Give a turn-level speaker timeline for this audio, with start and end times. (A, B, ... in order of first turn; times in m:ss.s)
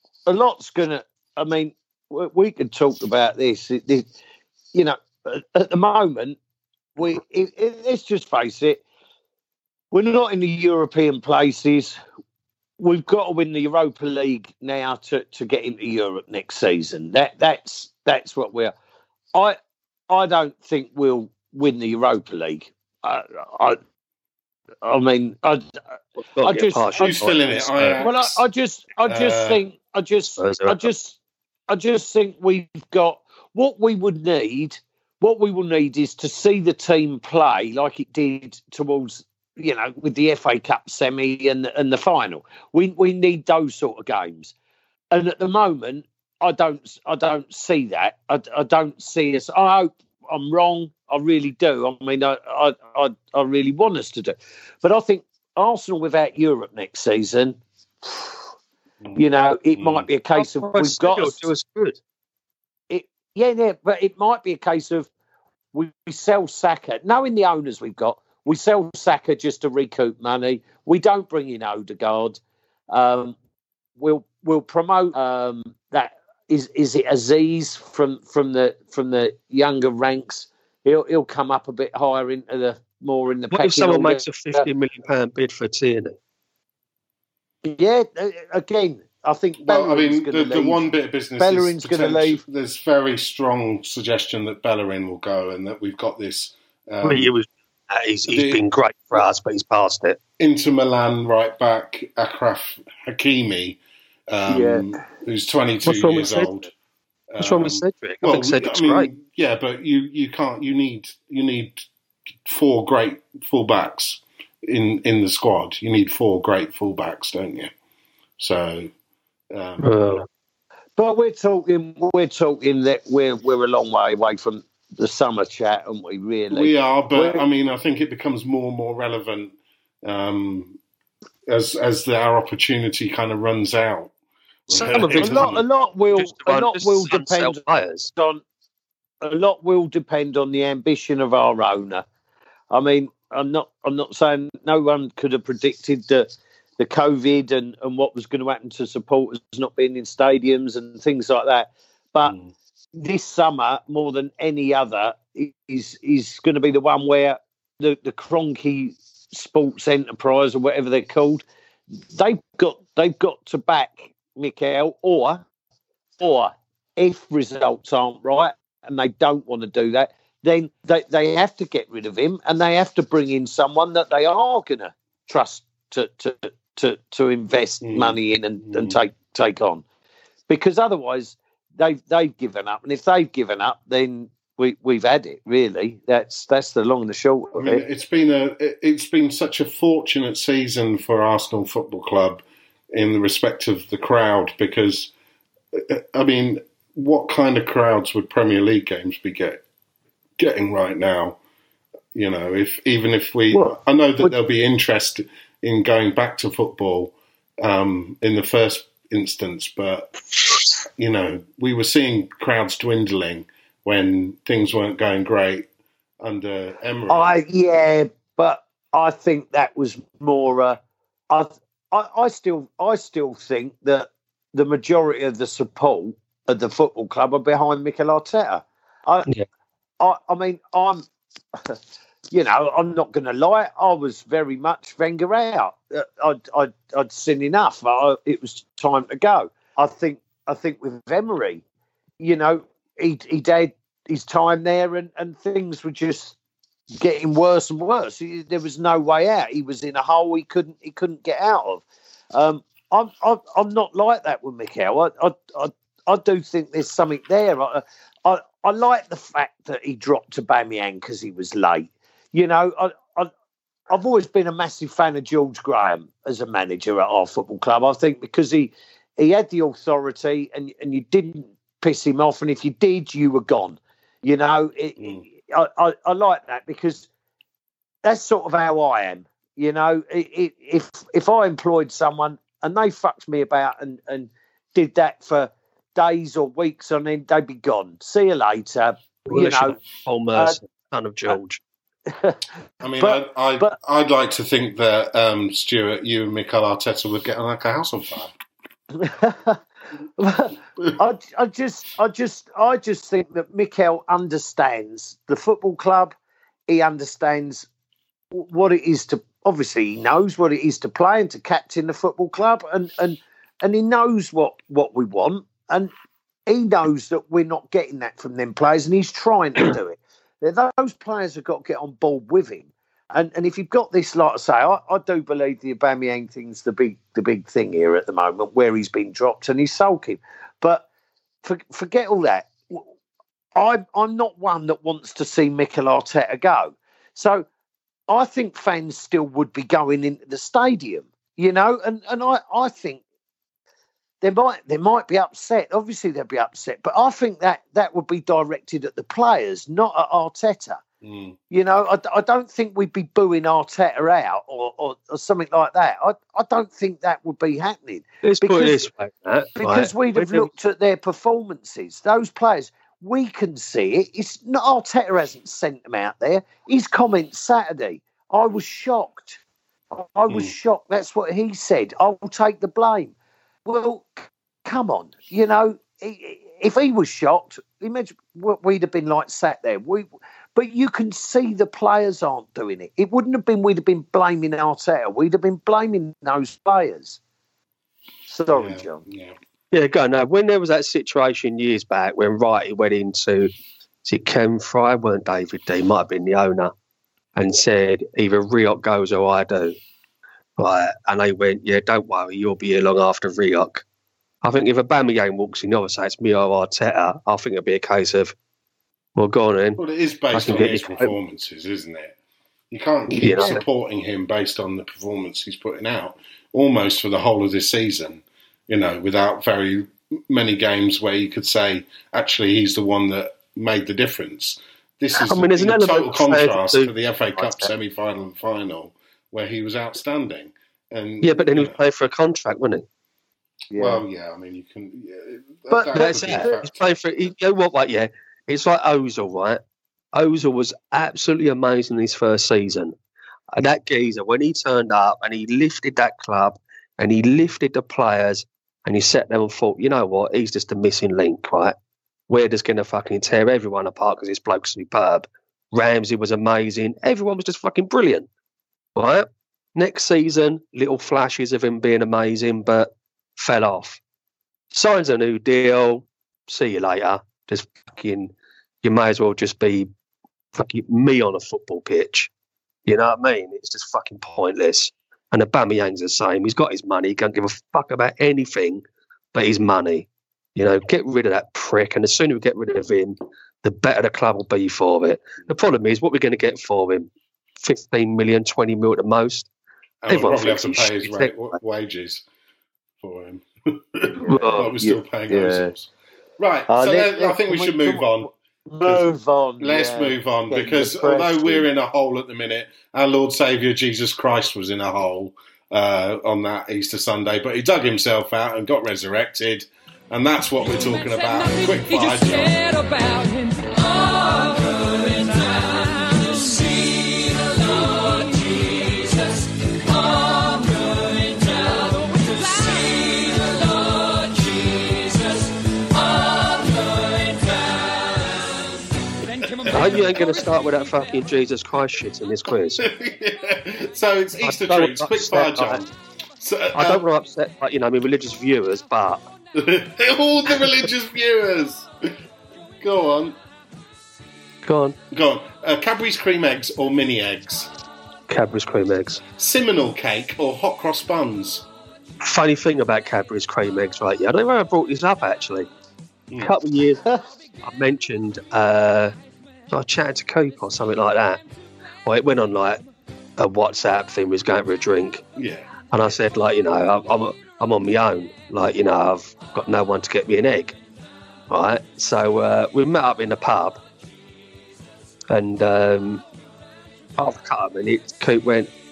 0:00.2-0:04.1 A
0:04.7-0:06.4 A
0:07.0-0:08.8 A
0:09.9-0:12.0 A
0:12.8-0:18.7 A
0:20.1-0:23.8 A
0:24.8-0:25.8 A
0:26.4-0:28.0 B
0:26.4-0:27.0 A
0:27.0-0:28.4 C
0:28.0-0:31.2 A
0:29.0-0:29.6 C
0:30.4-0:30.9 B
0:31.7-0:44.5 A
0:45.1-0:58.3 A
0:59.1-1:01.4 A
0:59.8-1:00.1 C
1:00.4-1:02.0 B
1:02.9-1:05.1 A
1:05.7-1:12.4 A
1:12.9-1:13.4 A
1:14.0-1:24.7 A
1:23.5-1:26.2 B
1:27.6-1:30.8 A
1:29.6-1:37.3 C
1:31.4-1:32.4 A
1:37.0-1:40.2 B
1:38.3-1:38.6 C
1:40.4-1:46.7 C
1:44.5-1:45.0 A
1:45.8-1:46.6 B
1:47.3-1:51.8 C
1:47.4-1:49.1 B
1:52.4-1:57.7 C
1:58.4-1:58.9 C
1:59.5-1:59.9 C
1:59.8-2:00.2 B
2:01.0-2:07.4 A
2:06.5-2:10.8 C
2:11.5-2:14.1 C
2:14.7-2:15.6 C
2:14.7-2:15.6 B
2:15.2-2:17.6 A
2:16.1-2:18.1 B
2:18.1-2:18.4 A
2:19.2-2:22.0 A
2:22.7-2:32.3 A
2:32.2-2:32.5 C
2:32.9-2:41.4 A
2:42.1-2:45.4 A
2:46.2-2:59.8 A
2:57.8-2:59.0 C
3:00.5-3:07.8 A
3:07.5-3:15.1 C
3:15.7-3:19.6 C
3:20.4-3:21.4 C
3:22.1-3:30.1 C
3:23.5-3:24.3 A
3:31.0-3:35.7 C
3:36.2-3:37.4 C
3:37.1-3:49.3 A
3:50.0-3:51.8 A
3:52.3-4:01.6 A
4:02.2-4:06.3 A
4:07.0-4:23.3 A
4:23.9-4:37.1 A
4:35.0-4:35.2 C
4:38.0-4:49.8 A
4:49.3-4:51.6 B
4:52.1-4:52.4 A
4:52.8-4:58.3 C
4:53.0-4:53.8 A
4:58.9-4:59.6 A
5:00.2-5:06.1 A
5:06.7-5:07.7 A
5:08.3-5:15.9 A
5:16.5-5:30.8 A
5:31.4-5:32.8 A
5:33.6-5:37.4 A
5:38.1-5:43.0 A
5:44.2-5:50.8 A
5:51.0-5:51.4 C
5:51.5-5:58.8 A
5:58.2-6:00.5 B
5:59.6-6:09.4 A
6:09.9-6:13.1 A
6:13.6-6:27.2 A
6:28.3-6:29.0 A
6:28.5-6:29.3 C
6:29.7-6:33.5 B
6:34.0-6:36.7 B
6:37.4-6:39.8 B
6:40.6-6:43.8 B
6:44.4-6:48.3 B
6:49.2-6:49.8 B
6:49.8-6:52.2 C
6:50.3-6:51.1 B
6:50.4-6:50.7 A
6:52.7-7:11.8 C
6:53.2-6:53.6 B
6:53.3-6:53.6 A
7:05.2-7:07.7 B
7:11.2-7:12.8 B
7:13.7-7:14.0 A
7:13.8-7:16.9 C
7:15.7-7:16.6 A
7:15.9-7:19.6 B
7:20.1-7:22.9 B
7:23.5-7:31.7 B
7:32.3-7:38.3 B
7:39.0-7:44.0 B
7:44.7-7:48.3 B
7:48.8-7:49.9 B
7:50.5-7:52.3 B
7:52.9-7:58.8 B
7:59.3-8:09.5 B
8:10.0-8:12.2 C
8:10.1-8:11.5 B
8:13.0-8:18.3 C
8:14.3-8:14.7 B
8:14.5-8:15.7 A
8:16.7-8:21.7 A
8:19.6-8:32.8 C
8:49.7-8:52.8 B
8:52.8-8:57.0 C
8:54.4-8:55.8 B
8:56.7-8:59.2 B
8:59.5-9:01.9 C
9:02.8-9:03.4 C
9:04.6-9:05.0 B
9:05.1-9:07.7 C
9:08.3-9:09.2 B
9:09.4-9:11.7 C
9:12.2-9:15.7 B
9:16.4-9:17.0 B
9:17.6-9:19.1 B
9:19.7-9:21.4 B
9:22.0-9:22.8 B
9:23.4-9:25.2 B
9:25.4-9:25.7 C
9:25.9-9:30.7 B
9:31.5-9:33.8 B
9:35.3-9:36.2 B
9:37.2-9:38.7 B